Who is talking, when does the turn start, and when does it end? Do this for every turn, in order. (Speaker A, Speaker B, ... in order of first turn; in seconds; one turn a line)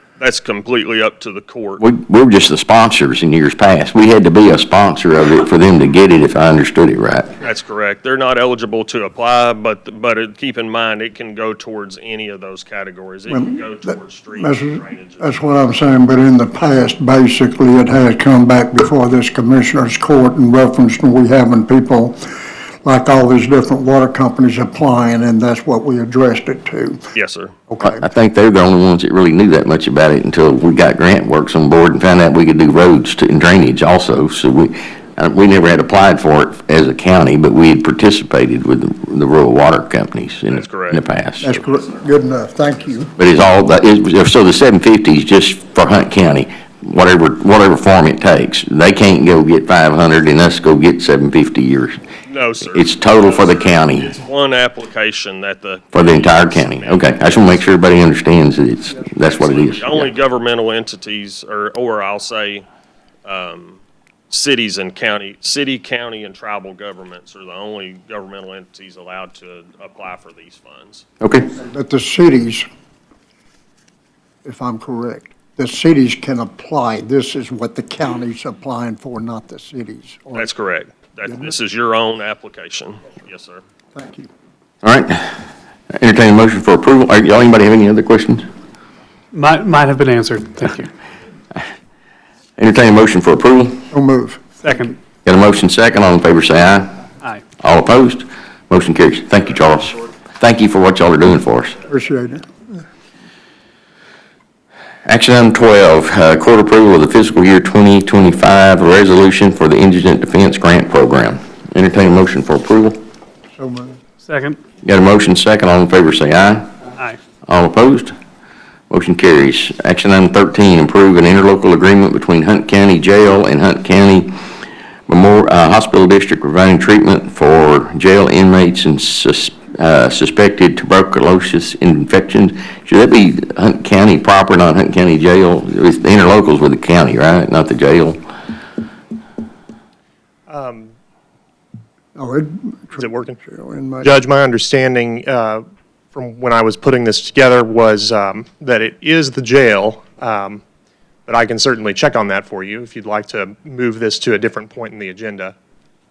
Speaker A: 0.2-1.8
Speaker B: 1.8-7.3
Speaker A: 7.4-15.3
Speaker C: 13.3-22.3
Speaker C: 22.8-27.1
Speaker A: 27.1-27.5
Speaker C: 27.7-28.1
Speaker B: 27.8-41.6
Speaker A: 40.5-41.0
Speaker C: 41.4-43.1
Speaker B: 43.2-52.0
Speaker A: 52.3-58.1
Speaker B: 52.7-54.1
Speaker B: 55.9-60.1
Speaker A: 59.0-62.6
Speaker A: 63.2-63.8
Speaker A: 64.3-71.0
Speaker B: 71.2-71.5
Speaker C: 71.5-72.6
Speaker C: 74.4-80.5
Speaker A: 80.3-83.6
Speaker C: 83.9-84.3
Speaker B: 84.8-85.4
Speaker B: 85.9-88.5
Speaker D: 89.3-90.9
Speaker B: 92.6-93.8
Speaker C: 93.9-94.7
Speaker D: 94.6-95.0
Speaker B: 95.2-97.0
Speaker B: 97.6-101.8
Speaker C: 101.9-102.8
Speaker B: 105.0-113.0
Speaker C: 113.6-114.0
Speaker D: 114.3-114.6
Speaker B: 114.8-116.7
Speaker B: 117.5-118.1
Speaker B: 118.9-124.3
Speaker B: 125.1-138.2
Speaker E: 140.5-140.9
Speaker C: 142.2-144.1
Speaker E: 143.0-143.4
Speaker E: 144.0-150.6
Speaker E: 151.2-155.5